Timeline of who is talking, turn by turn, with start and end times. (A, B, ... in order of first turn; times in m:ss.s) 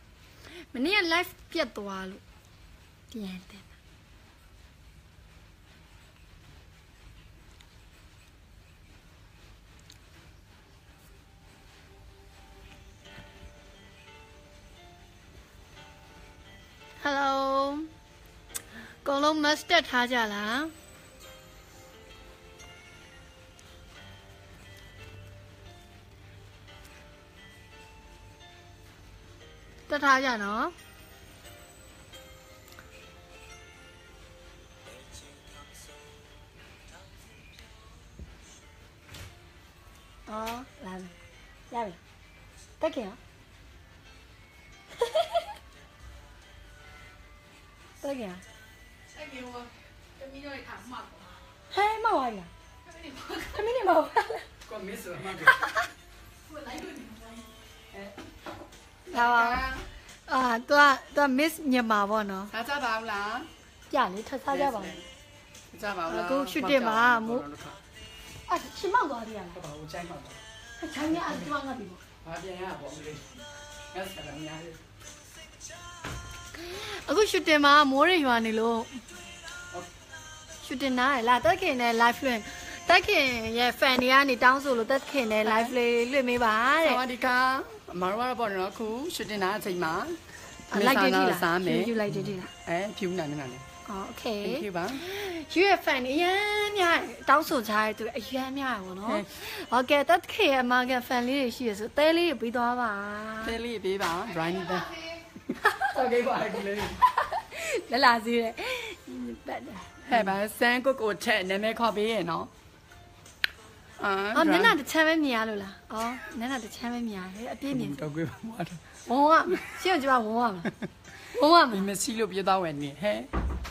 0:00.5-0:02.2 A
0:03.1-0:03.7 A
0:17.0-0:17.9 A
0:19.0-0:20.7 A
0:29.9-0:30.8 A
0:40.3-0:41.2 A
0:41.7-0:42.0 A
0:42.8-0:43.2 A
0:45.0-0:45.4 A
0:48.0-0:48.4 A
0:49.1-0:51.4 B
0:51.7-0:52.5 A
0:53.0-0:53.3 B
0:53.3-0:54.5 A
0:54.6-0:55.6 C
0:55.4-0:55.8 A
0:56.5-0:57.5 B
0:59.1-0:59.7 A
0:59.1-0:59.8 C
1:00.3-1:02.5 A
1:02.5-1:03.5 C
1:03.9-1:05.0 A
1:04.5-1:05.1 C
1:05.7-1:07.8 C
1:06.1-1:07.4 A
1:08.5-1:09.6 A
1:09.5-1:10.4 C
1:10.8-1:12.0 A
1:11.1-1:11.5 C
1:12.2-1:14.8 C
1:16.5-1:19.0 A
1:20.6-1:27.0 A
1:25.4-1:25.8 C
1:26.8-1:33.6 C
1:30.7-1:32.5 A
1:33.9-1:43.6 A
1:34.4-1:35.0 C
1:39.0-1:39.3 C
1:43.4-1:44.9 C
1:45.7-1:47.0 C
1:46.9-1:50.4 A
1:50.1-1:52.5 C
1:54.0-1:54.8 C
1:54.3-1:58.0 A
1:57.7-1:58.9 C
1:59.1-2:00.7 A
2:01.3-2:01.9 A
2:01.7-2:03.3 C